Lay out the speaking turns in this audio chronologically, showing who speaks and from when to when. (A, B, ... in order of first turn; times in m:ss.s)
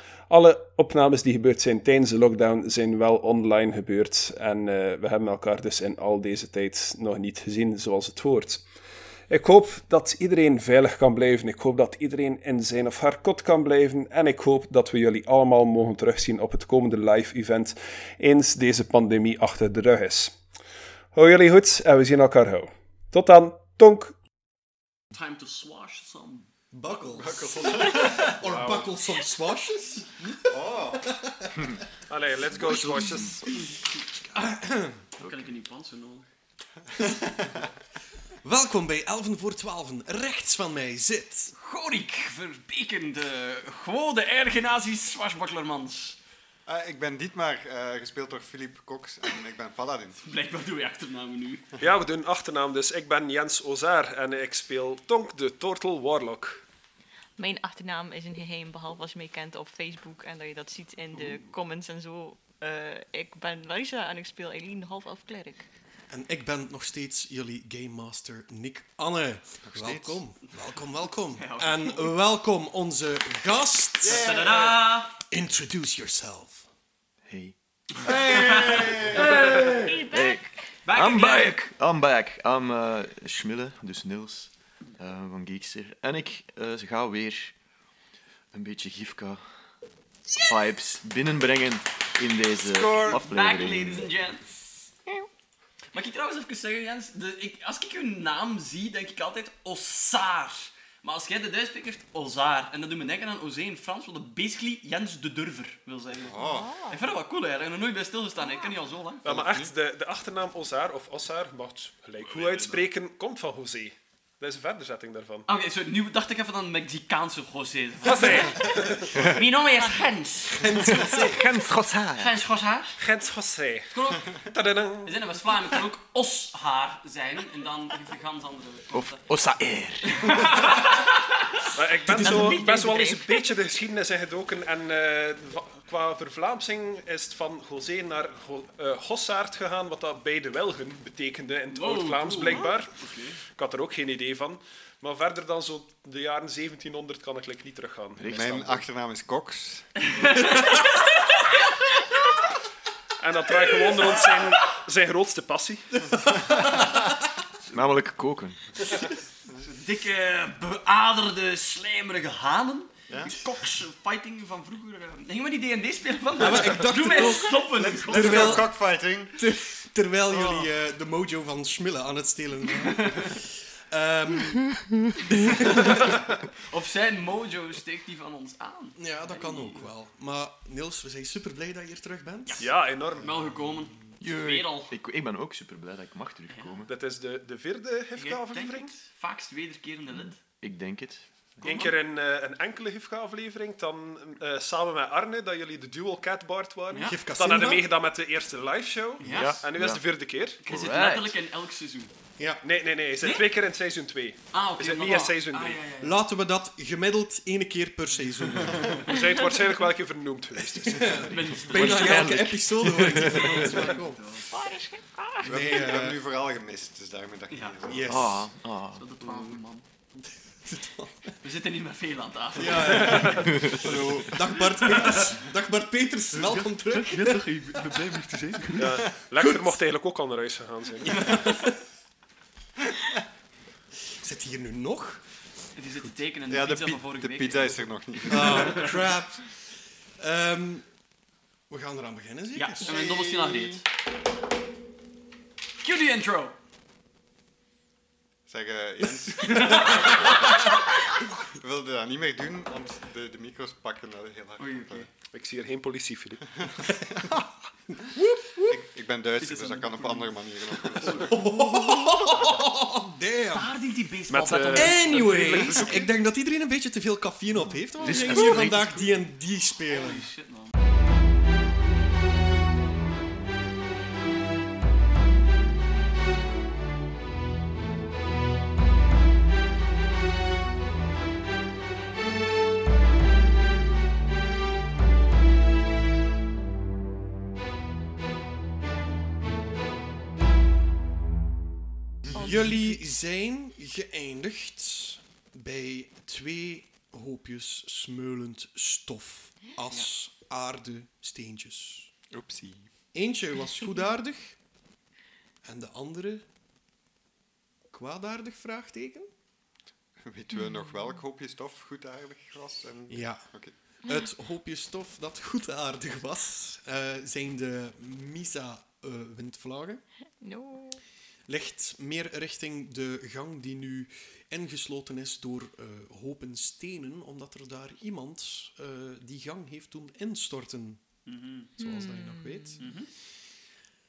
0:00.3-0:08.6 A
0:09.3-0:20.4 A
0:21.2-0:24.2 A
0:25.1-0:26.5 B
0:26.7-0:31.7 C
0:27.0-0:28.4 D
0:28.4-0:28.9 A
0:30.5-0:31.1 D
0:32.1-0:33.6 A
0:32.5-0:33.7 C
0:34.2-0:35.2 C
0:35.2-0:36.3 B
0:38.4-0:41.5 C
0:41.6-0:46.2 B
0:46.7-0:50.2 D
0:50.2-0:51.7 B
0:51.8-0:56.6 A
0:57.4-1:05.7 E
1:01.1-1:01.5 B
1:06.1-1:14.3 C
1:09.7-1:10.2 D
1:11.3-1:12.1 B
1:14.0-1:14.8 D
1:14.0-1:15.2 B
1:15.2-1:16.7 C
1:17.3-1:27.5 F
1:18.0-1:19.9 B
1:18.0-1:19.4 D
1:19.6-1:20.6 E
1:20.8-1:21.6 B
1:28.5-1:29.4 F
1:30.4-1:34.1 F
1:32.7-1:33.2 D
1:33.1-1:34.5 B
1:35.9-1:49.3 B
1:46.2-1:46.7 D
1:46.4-1:47.0 E
1:48.4-1:48.8 E
1:49.2-1:55.5 A
1:52.2-1:52.8 F
1:55.5-2:00.8 B
1:58.0-1:59.2 A
1:59.1-1:59.4 F
2:00.5-2:01.5 C
2:00.8-2:02.4 F
2:02.2-2:03.0 B
2:03.0-2:05.2 A
2:03.9-2:04.4 B
2:05.0-2:09.2 B
2:08.9-2:10.7 F
2:10.2-2:11.1 B
2:11.7-2:28.5 A
2:12.2-2:13.5 E
2:12.2-2:12.7 B
2:21.7-2:23.4 B
2:28.2-2:28.9 F
2:28.3-2:30.6 D
2:30.2-2:31.0 B
2:33.2-2:35.9 A
2:37.7-2:38.9 F
2:39.6-2:48.7 B
2:43.1-2:43.4 D
2:46.4-2:56.2 C
2:47.8-2:49.4 D
2:50.3-2:50.7 D
2:52.9-2:53.4 B
2:56.6-2:59.8 B
2:59.0-3:02.7 C
3:02.5-3:05.0 B
3:02.6-3:03.6 A
3:04.2-3:06.9 F
3:06.5-3:06.8 B
3:06.9-3:09.0 A
3:08.2-3:10.4 B
3:10.2-3:11.8 F
3:11.6-3:20.6 A
3:16.9-3:17.2 B
3:17.1-3:17.9 C
3:19.2-3:19.6 B
3:19.2-3:21.4 F
3:20.6-3:22.1 B
3:22.4-3:22.6 C
3:22.6-3:25.8 A
3:24.5-3:26.2 B
3:26.0-3:29.0 C
3:29.0-3:31.3 A
3:30.6-3:34.2 C
3:31.2-3:32.4 B
3:31.6-3:33.6 F
3:33.0-3:34.5 B
3:34.5-3:35.6 E
3:35.4-3:36.2 C
3:35.4-3:38.2 D
3:37.5-3:37.8 B
3:37.8-3:38.5 C
3:38.1-3:39.0 F
3:39.0-3:39.8 B
3:40.1-3:41.4 C
3:41.4-3:43.9 B
3:42.6-3:49.8 C
3:43.4-3:43.9 F
3:43.6-3:44.6 D
3:44.6-3:45.2 B
3:46.3-3:48.9 B
3:48.8-3:51.4 A
3:51.0-3:51.8 C
3:51.1-3:51.6 B
3:54.1-3:55.2 C
3:55.8-3:58.9 B
3:56.5-3:59.1 D
3:58.3-4:00.9 C
4:01.7-4:03.8 C
4:02.5-4:03.8 B
4:02.8-4:03.2 D
4:05.8-4:06.6 B
4:08.5-4:15.1 D
4:09.4-4:10.6 B
4:14.6-4:15.1 B
4:15.3-4:16.4 A
4:16.5-4:17.4 D
4:18.0-4:18.9 C
4:18.7-4:21.5 D
4:19.4-4:21.6 B
4:21.0-4:23.7 C
4:23.5-4:26.1 B
4:24.3-4:26.1 A
4:24.7-4:30.3 C
4:28.0-4:29.2 F
4:28.0-4:28.9 B
4:29.9-4:30.7 B
4:52.3-5:02.1 C
4:52.3-4:53.0 E
5:02.3-5:02.9 D
5:03.1-5:04.6 C
5:05.6-5:06.5 C
5:07.9-5:09.3 C
5:10.2-5:13.7 D
5:13.1-5:13.5 C
5:14.0-5:20.0 C
5:20.4-5:21.0 E
5:21.5-5:31.0 C
5:31.3-5:31.7 B
5:31.8-5:32.8 C
5:31.8-5:32.8 E
5:32.8-5:33.1 B